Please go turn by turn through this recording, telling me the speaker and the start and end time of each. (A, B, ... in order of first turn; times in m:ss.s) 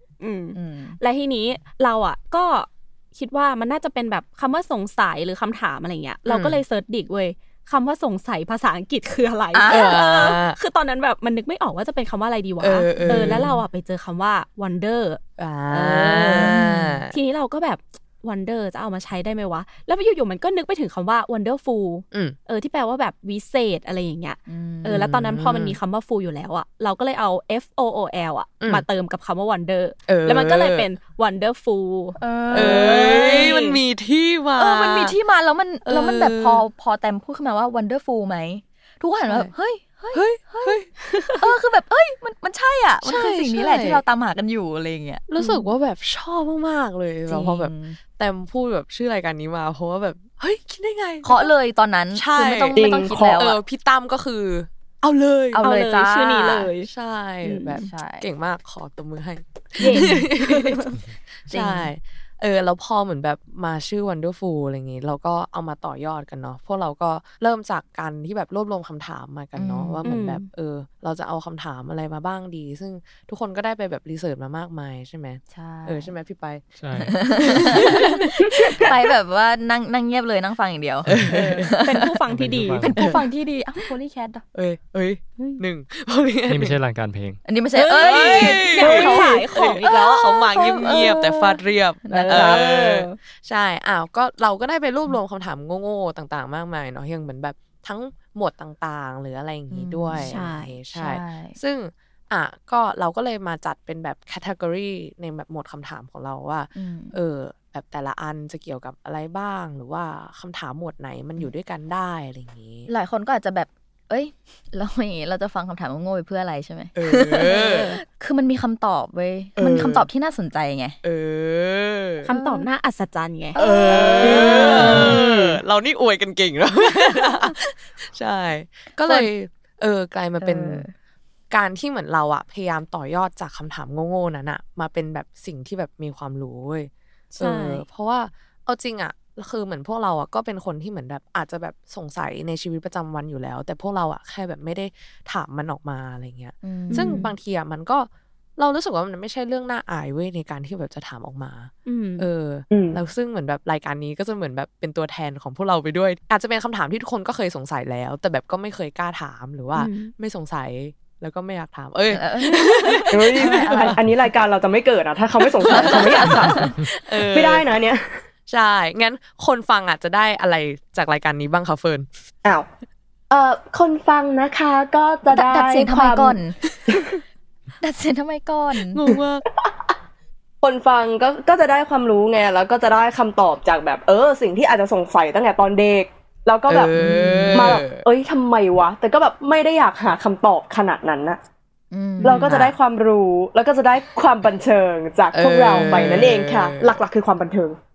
0:00.2-0:16.5 A
0:00.5-0:01.0 B
0:06.3-0:06.6 C
0:09.5-0:10.0 B
0:09.7-0:10.6 C
0:12.6-0:13.6 C
0:13.0-0:13.5 B
0:15.4-0:17.2 C
0:16.4-0:17.0 B
0:17.1-0:33.8 A
0:22.1-0:22.4 C
0:24.5-0:25.0 B
0:24.9-0:25.8 C
0:28.6-0:28.9 C
0:30.1-0:30.9 C
0:32.2-0:33.3 B
0:32.5-0:35.2 C
0:34.6-0:40.8 B
0:35.8-0:36.6 C
0:39.2-0:39.5 C
0:40.1-0:40.9 C
0:41.4-0:45.2 B
0:43.0-0:44.0 C
0:45.3-0:51.5 C
0:45.4-0:45.7 A
0:47.3-0:48.0 B
0:51.2-0:53.6 B
0:52.1-0:55.7 C
0:52.8-0:53.5 D
0:55.6-0:56.9 A
0:55.6-0:56.7 B
0:56.8-1:00.8 C
0:57.4-0:57.8 A
0:57.8-0:58.3 B
0:59.8-1:01.0 A
0:59.9-1:00.3 B
1:01.4-1:16.6 C
1:01.5-1:01.9 B
1:09.6-1:10.1 B
1:10.0-1:10.5 A
1:15.5-1:16.2 B
1:16.8-1:17.3 E
1:17.1-1:22.1 B
1:17.4-1:18.1 C
1:21.1-1:21.3 E
1:21.1-1:21.7 C
1:21.3-1:22.9 A
1:22.3-1:23.0 E
1:22.8-1:24.4 B
1:23.0-1:23.2 C
1:24.5-1:26.8 C
1:26.5-1:27.4 E
1:27.4-1:29.9 B
1:27.7-1:31.6 A
1:28.0-1:52.9 C
1:30.6-1:31.1 B
1:32.1-1:32.7 B
1:32.1-1:33.2 A
1:39.7-1:40.4 B
1:40.1-1:40.7 A
1:40.9-1:41.6 B
1:46.7-1:47.2 B
1:52.9-2:01.0 B
1:57.0-1:58.0 C
1:57.5-1:58.0 A
1:59.6-2:00.1 C
2:01.0-2:02.3 C
2:02.2-2:03.6 A
2:02.3-2:02.7 B
2:03.6-2:05.2 B
2:03.6-2:10.9 C
2:04.2-2:04.5 D
2:04.4-2:05.6 A
2:10.4-2:10.9 B
2:11.5-2:44.0 C
2:17.4-2:17.8 A
2:26.6-2:27.2 B
2:26.9-2:27.3 A
2:31.9-2:32.3 A
2:32.7-2:33.0 D
2:39.7-2:40.1 A
2:42.1-2:43.6 B
2:43.1-2:48.0 D
2:45.6-2:47.8 C
2:45.7-2:46.5 B
2:48.5-2:52.1 C
2:53.3-2:56.4 D
2:55.3-2:56.6 B
2:57.8-2:59.0 B
2:58.9-2:59.4 C
3:00.6-3:06.9 D
3:06.7-3:08.0 C
3:07.0-3:07.7 B
3:07.5-3:11.4 D
3:11.9-3:12.7 B
3:12.2-3:17.8 D
3:12.2-3:12.8 C
3:15.3-3:17.0 C